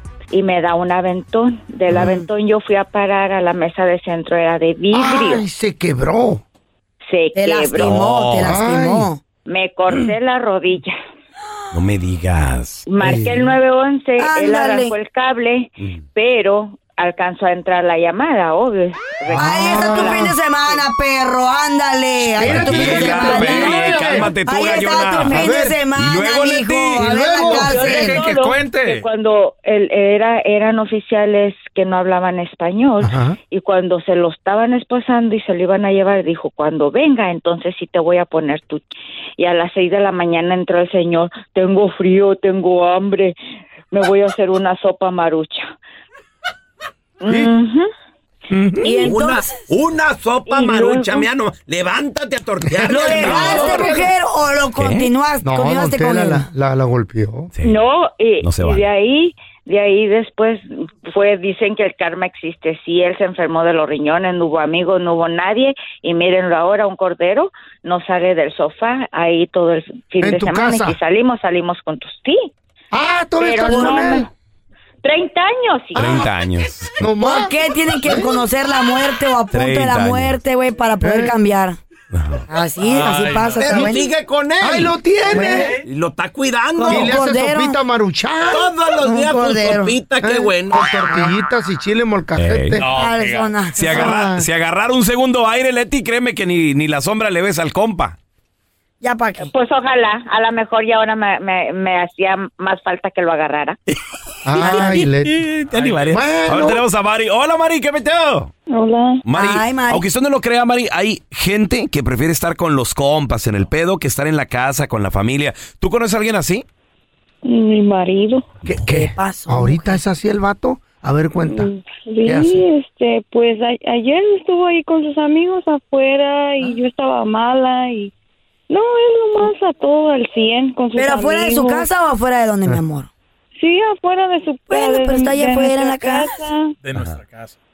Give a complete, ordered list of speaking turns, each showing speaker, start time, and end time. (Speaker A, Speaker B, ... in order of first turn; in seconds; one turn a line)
Speaker A: 0.3-5.4
Speaker B: 4.9-6.4
Speaker A: 7.1-8.0
Speaker C: 7.3-9.2
Speaker D: 7.8-8.6
Speaker B: 8.4-9.1
Speaker A: 9.4-10.9
Speaker D: 11.7-12.8
Speaker A: 12.9-20.4
Speaker B: 13.0-13.5
Speaker C: 14.2-14.9
Speaker B: 19.3-20.3
Speaker C: 19.3-28.2
Speaker B: 22.4-24.3
Speaker D: 22.4-27.7
Speaker B: 25.3-25.8
Speaker B: 26.9-27.9
Speaker A: 27.6-38.8
Speaker E: 27.8-29.1
Speaker B: 33.0-33.4
Speaker A: 39.4-43.4
Speaker A: 43.9-45.7
Speaker A: 47.2-47.9
Speaker B: 47.3-47.5
Speaker B: 48.5-49.0
Speaker C: 48.8-49.6
Speaker A: 48.9-49.1
Speaker F: 49.0-54.0
Speaker A: 50.5-51.3
Speaker C: 52.9-56.5
Speaker B: 52.9-54.1
Speaker D: 54.8-55.1
Speaker B: 55.4-57.5
Speaker D: 57.5-57.8
Speaker A: 57.6-72.5
Speaker D: 58.4-58.9
Speaker B: 70.2-71.0
Speaker B: 72.9-74.2
Speaker A: 73.4-74.3
Speaker C: 73.6-74.2
Speaker A: 75.0-76.2
Speaker B: 75.9-76.3
Speaker D: 76.0-77.0
Speaker B: 77.0-78.4
Speaker C: 77.2-81.8
Speaker D: 79.5-80.4
Speaker B: 81.0-81.3
Speaker D: 82.1-82.4
Speaker C: 82.5-84.1
Speaker E: 83.1-83.6
Speaker F: 83.6-85.0
Speaker B: 83.7-83.9
Speaker B: 84.6-85.8
Speaker C: 85.3-85.7
Speaker F: 85.8-87.2
Speaker C: 86.8-87.8
Speaker B: 86.9-88.7
Speaker F: 88.5-90.9
Speaker C: 88.9-90.0
Speaker B: 90.2-92.9
Speaker D: 92.4-92.8
Speaker E: 92.8-93.5
Speaker C: 92.9-94.1
Speaker D: 93.8-98.2
Speaker B: 93.8-94.5
Speaker C: 99.0-99.5
Speaker A: 99.5-103.8
Speaker B: 104.4-105.4
Speaker D: 104.6-108.5
Speaker C: 104.6-105.0
Speaker B: 106.1-106.8
Speaker G: 108.7-109.2
Speaker D: 109.2-116.6
Speaker C: 109.3-110.0
Speaker G: 117.4-118.5
Speaker B: 118.7-121.7
Speaker C: 118.8-120.0
Speaker G: 121.5-128.1
Speaker B: 122.2-122.6
Speaker G: 128.7-131.9
Speaker C: 130.9-133.1
Speaker G: 133.6-136.8
Speaker C: 134.7-136.4
Speaker E: 136.8-137.5
Speaker D: 136.9-137.2